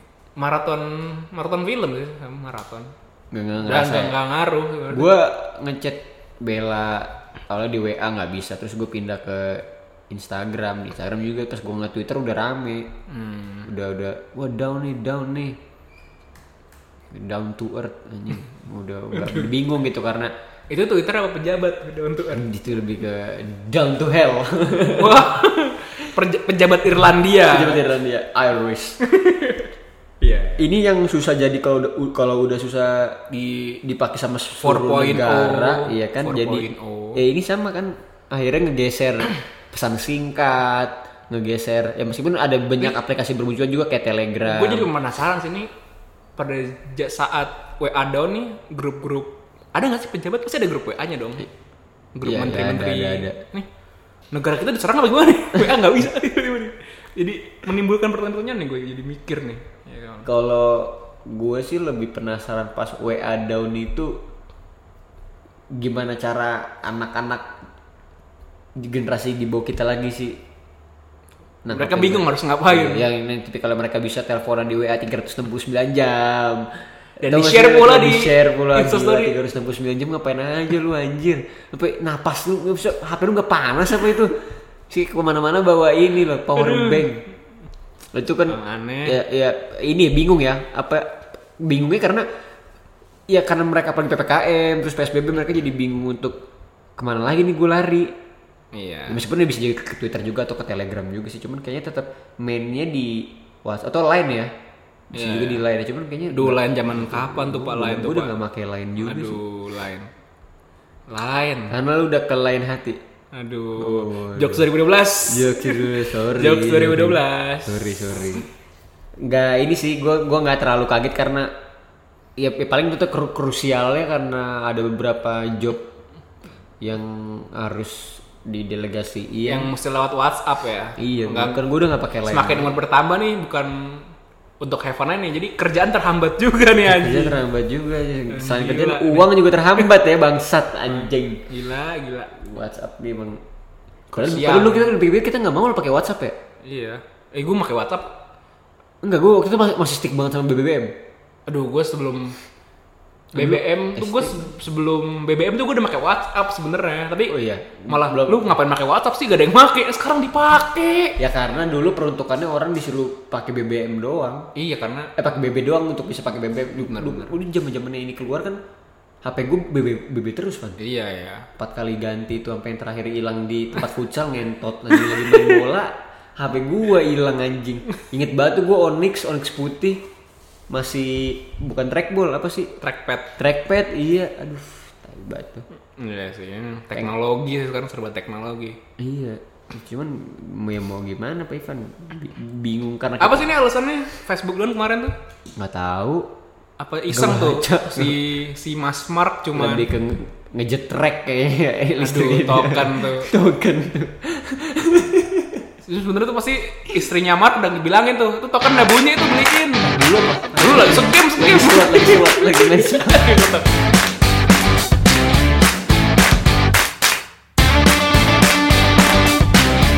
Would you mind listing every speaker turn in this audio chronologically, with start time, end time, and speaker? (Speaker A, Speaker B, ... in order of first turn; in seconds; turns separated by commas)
Speaker A: 0.4-2.9, Speaker B: 3.3-4.1, Speaker A: 3.6-5.1, Speaker B: 4.9-12.9, Speaker A: 13.1-13.7, Speaker B: 13.6-15.6, Speaker B: 17.1-20.3, Speaker A: 19.1-19.5, Speaker A: 20.7-22.4, Speaker B: 22.3-25.3, Speaker A: 24.9-27.9, Speaker B: 27.5-29.0, Speaker A: 29.0-29.7, Speaker A: 30.2-30.7, Speaker B: 30.6-44.9, Speaker A: 34.6-37.2, Speaker A: 44.4-45.7, Speaker A: 46.4-51.5, Speaker A: 52.1-53.7, Speaker B: 52.2-53.4, Speaker A: 54.3-60.3, Speaker B: 60.2-64.2, Speaker B: 65.7-67.5, Speaker B: 68.8-70.4, Speaker B: 71.6-76.7, Speaker A: 71.7-73.0, Speaker B: 77.2-84.3, Speaker A: 77.2-79.4, Speaker B: 84.9-87.2, Speaker A: 86.5-87.2, Speaker B: 88.1-92.2, Speaker A: 88.5-89.2, Speaker B: 93.3-96.4, Speaker B: 97.0-98.1, Speaker A: 98.7-99.2, Speaker B: 99.1-104.5, Speaker B: 105.1-109.4, Speaker A: 105.1-105.6, Speaker A: 106.3-108.3, Speaker A: 109.0-110.1, Speaker A: 111.1-111.8, Speaker B: 111.7-113.0, Speaker A: 113.3-117.8, Speaker B: 113.8-114.7, Speaker B: 115.2-118.5, Speaker B: 119.2-121.5, Speaker B: 122.4-125.8, Speaker B: 126.8-129.7, Speaker A: 129.4-131.6, Speaker B: 131.0-132.7, Speaker A: 132.2-134.1, Speaker A: 134.6-137.4, Speaker B: 136.9-141.4, Speaker A: 138.3-139.9, Speaker A: 140.8-142.3, Speaker B: 142.3-143.4, Speaker B: 144.1-146.3, Speaker A: 144.1-144.9, Speaker A: 146.6-148.1, Speaker B: 149.0-150.9, Speaker A: 151.5-152.4, Speaker A: 153.3-157.3, Speaker B: 153.3-154.4, Speaker B: 157.3-158.5, Speaker A: 157.9-161.2, Speaker B: 161.2-164.5, Speaker A: 164.5-165.1, Speaker B: 165.2-168.6, Speaker A: 166.8-167.3, Speaker B: 169.2-170.8, Speaker A: 170.8-171.5, Speaker B: 171.6-180.0, Speaker A: 175.0-175.6, Speaker B: 180.7-182.7, Speaker A: 182.8-183.3, Speaker B: 183.4-185.6, Speaker A: 186.0-188.8, Speaker B: 189.0-193.5, Speaker A: 193.2-195.1, Speaker B: 195.6-196.3, Speaker A: 196.8-199.9, Speaker B: 197.1-198.2, Speaker B: 199.5-205.6, Speaker A: 202.0-203.3, Speaker A: 205.8-209.9, Speaker B: 209.8-213.3, Speaker A: 210.6-213.7